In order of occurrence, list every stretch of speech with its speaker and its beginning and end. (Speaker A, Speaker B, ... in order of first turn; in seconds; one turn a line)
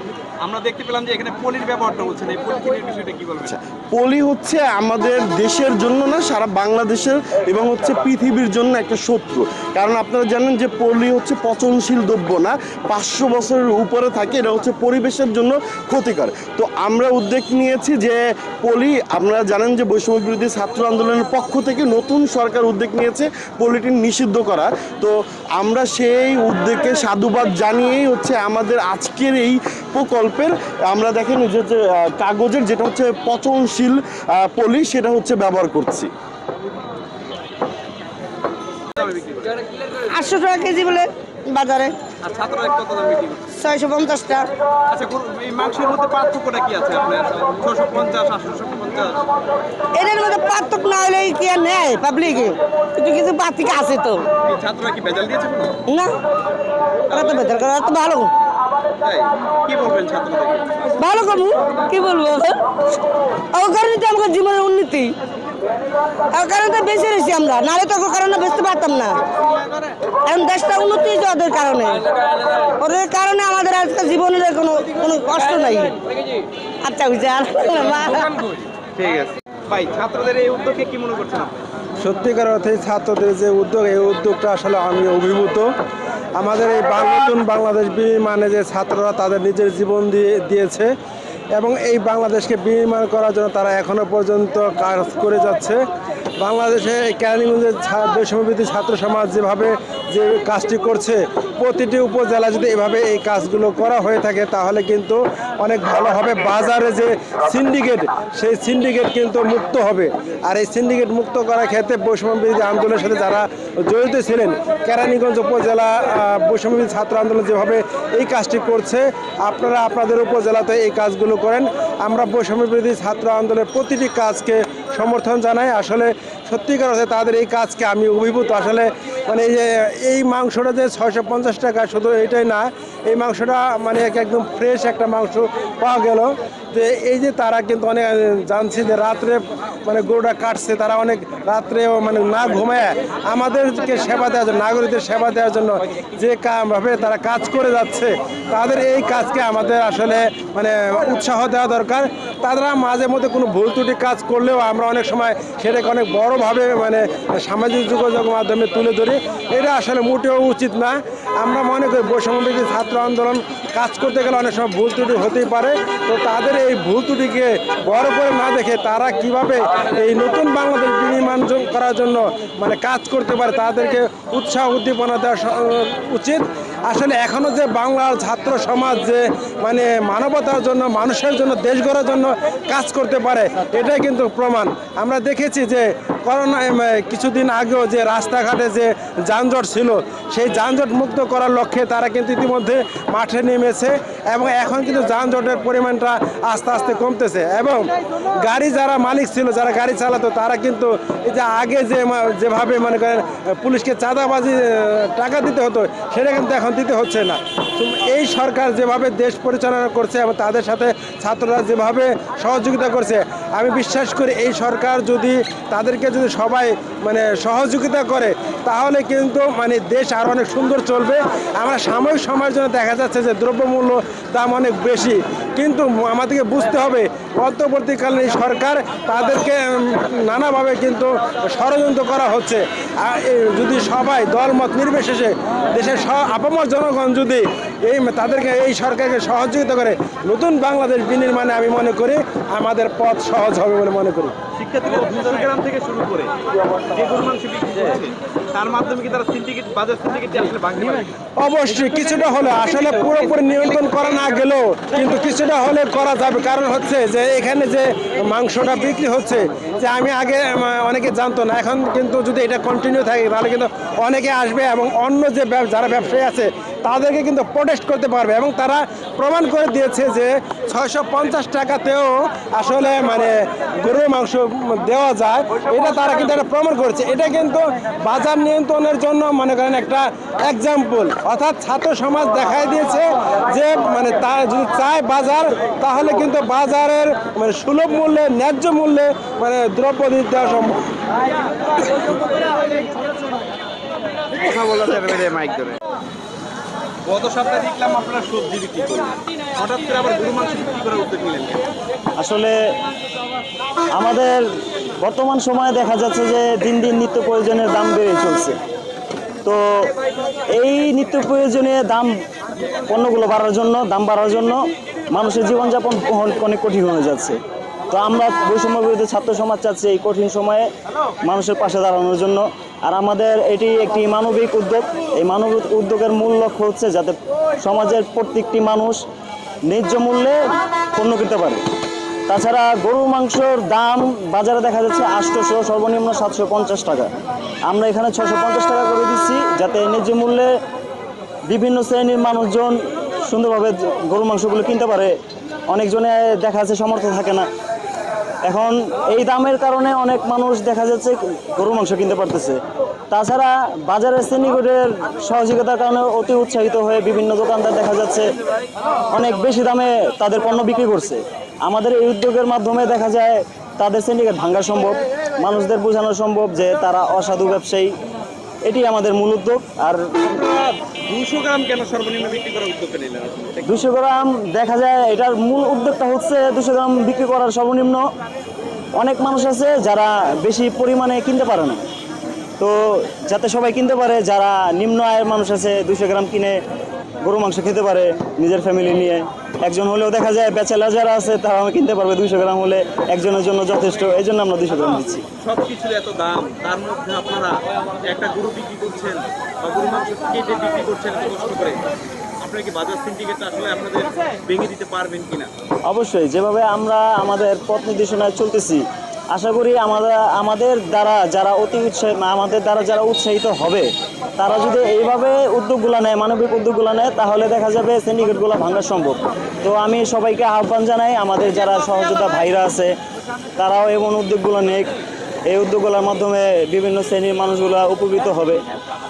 Speaker A: 0.4-3.5
Speaker B: 3.5-36.1
Speaker A: 39.0-39.6
Speaker C: 40.1-41.9
Speaker A: 42.2-43.5
Speaker C: 43.5-44.5
Speaker A: 44.9-49.1
Speaker C: 49.9-54.2
Speaker A: 54.5-55.8
Speaker C: 55.9-56.1
Speaker C: 57.1-58.3
Speaker A: 59.0-60.7
Speaker C: 61.0-62.6
Speaker C: 63.5-65.1
Speaker C: 66.3-69.2
Speaker C: 70.2-72.0
Speaker C: 72.8-75.9
Speaker C: 76.8-78.3
Speaker A: 79.0-81.6
Speaker D: 82.0-85.7
Speaker D: 86.4-90.9
Speaker D: 91.5-95.8
Speaker D: 96.4-197.9
Speaker D: 198.4-244.3
Speaker A: 244.6-246.3
Speaker A: 246.9-251.2
Speaker D: 251.4-290.8
Speaker A: 252.5-254.3
Speaker A: 294.4-295.8
Speaker A: 297.1-301.7
Speaker E: 302.2-302.6
Speaker E: 303.9-304.4
Speaker E: 305.0-308.6
Speaker E: 309.4-309.9
Speaker E: 310.5-312.1
Speaker E: 312.9-314.6
Speaker E: 315.1-317.4
Speaker E: 317.9-320.7
Speaker E: 321.2-329.0
Speaker E: 329.7-330.4
Speaker E: 330.9-331.6
Speaker E: 332.3-337.1
Speaker E: 337.7-340.5
Speaker E: 341.5-345.1
Speaker E: 345.7-347.5
Speaker E: 348.4-352.6
Speaker E: 353.1-358.3
Speaker E: 359.1-367.9
Speaker E: 368.7-370.0
Speaker A: 370.3-373.8
Speaker E: 373.6-378.0
Speaker E: 379.0-381.9
Speaker E: 382.6-386.6
Speaker E: 387.2-395.2
Speaker A: 395.4-401.8
Speaker A: 402.4-405.5
Speaker E: 405.9-422.9
Speaker E: 423.6-424.9
Speaker E: 425.5-428.6